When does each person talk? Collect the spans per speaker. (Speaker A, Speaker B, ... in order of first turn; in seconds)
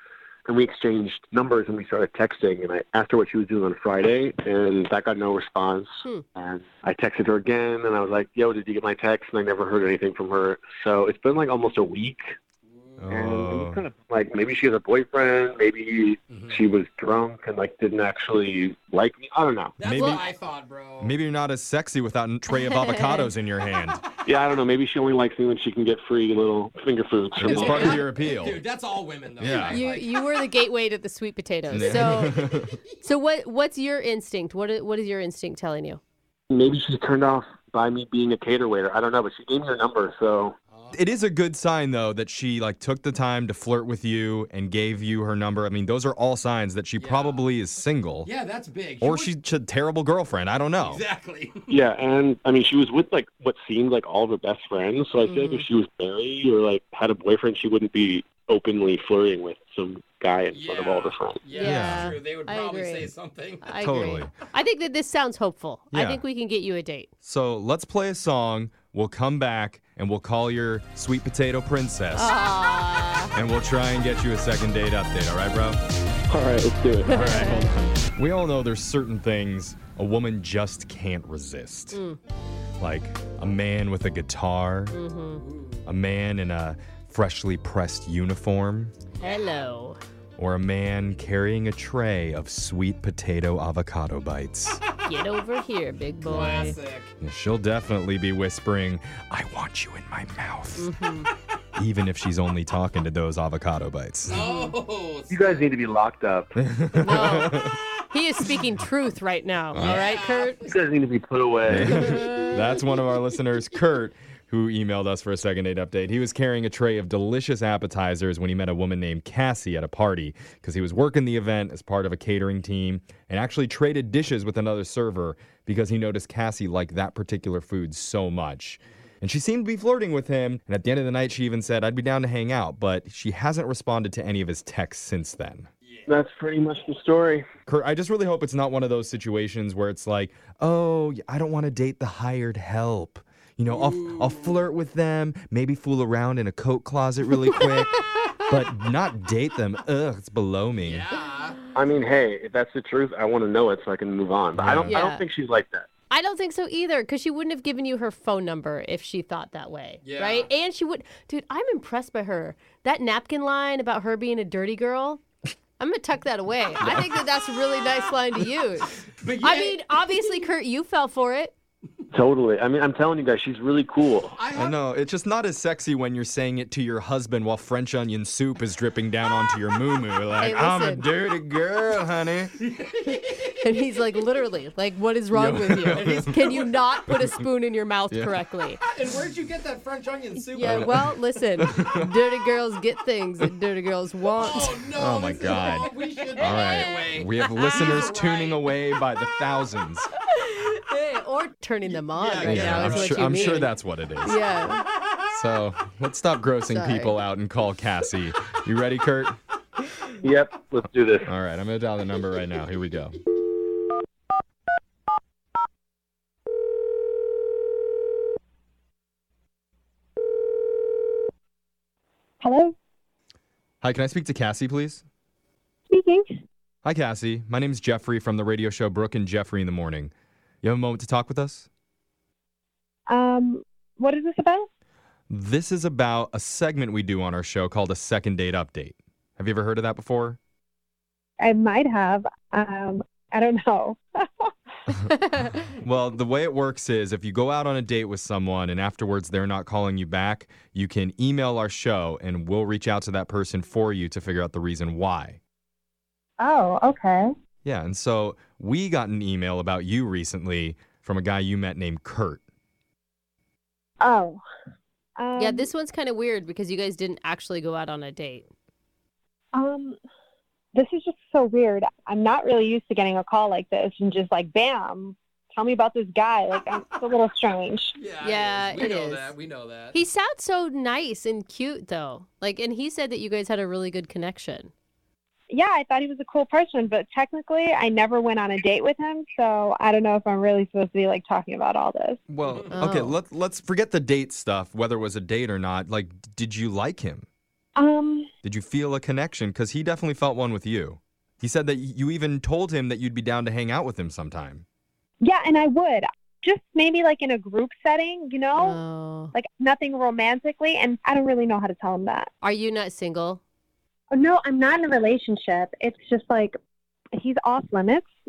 Speaker A: 0.5-12.4, 13.1-19.8, 24.3-28.0, 36.5-40.5, 51.7-61.4, 76.3-77.2, 105.3-106.5, 110.7-112.2, 136.1-137.4, 151.8-155.9, 172.1-174.4, 210.2-211.3
Speaker B: 12.7-13.1, 16.3-16.7, 19.8-21.1, 27.4-30.3, 31.7-32.9, 40.7-41.0, 47.0-47.5, 48.2-49.3, 50.8-51.8, 60.5-63.9, 85.4-85.9, 89.2-89.7, 96.2-97.1, 104.3-105.7, 109.8-110.6, 135.8-136.2, 143.7-144.7, 150.8-151.7, 160.0-160.5, 169.2-170.2, 174.4-174.8, 182.6-183.5, 185.9-186.8, 188.9-191.8, 194.4-198.6, 201.9-203.7, 277.9-280.0, 292.4-292.7
Speaker C: 13.0-13.8, 19.8-20.3, 21.0-24.0, 27.4-28.6, 29.4-29.8, 31.7-32.8, 40.9-48.3, 49.0-51.0, 61.6-62.2, 63.8-64.3, 65.9-66.2, 67.2-72.3, 73.3-75.8, 77.1-82.0, 82.8-85.0, 85.9-88.9, 90.4-94.8, 96.3-96.7, 97.2-100.9, 101.8-104.4, 106.6-107.8, 109.7-110.0, 111.7-135.7, 137.7-148.0, 148.5-151.1, 154.6-155.0, 166.8-167.2, 174.5-182.5, 185.3-186.4, 187.1-187.4, 188.1-188.3, 190.6-192.1, 194.9-200.1, 202.4-204.4, 205.3-209.4, 211.3-213.2, 223.8-225.0, 226.8-230.1, 230.6-231.7, 235.3-240.4, 244.9-255.4, 257.6-262.4, 292.3-297.3, 298.4-304.6
Speaker D: 19.9-20.2, 22.5-23.3, 29.7-32.5, 33.0-36.0, 55.2-55.7, 61.5-63.1, 63.6-67.1, 72.1-73.4, 77.1-77.7, 81.9-82.2, 84.9-85.4, 89.2-90.0, 95.0-96.8, 100.8-101.3, 104.4-104.7, 107.0-107.5, 108.1-110.7, 111.9-112.5, 147.6-148.6, 154.9-155.2, 156.1-165.2, 165.8-171.5, 180.4-181.1, 183.6-188.8, 190.5-194.8, 195.4-198.0, 200.3-204.8, 206.7-207.2, 265.4-268.5, 278.2-279.3, 279.9-284.7, 292.7-293.2, 308.6-309.3, 312.4-313.4
Speaker E: 222.4-222.7, 225.9-226.2, 233.1-234.7, 241.4-244.5, 256.4-257.3, 264.0-264.4, 265.2-265.7, 269.5-270.0, 270.7-277.9, 285.5-292.2, 297.8-298.3, 305.2-308.8, 309.3-312.3, 314.1-316.6, 317.2-318.1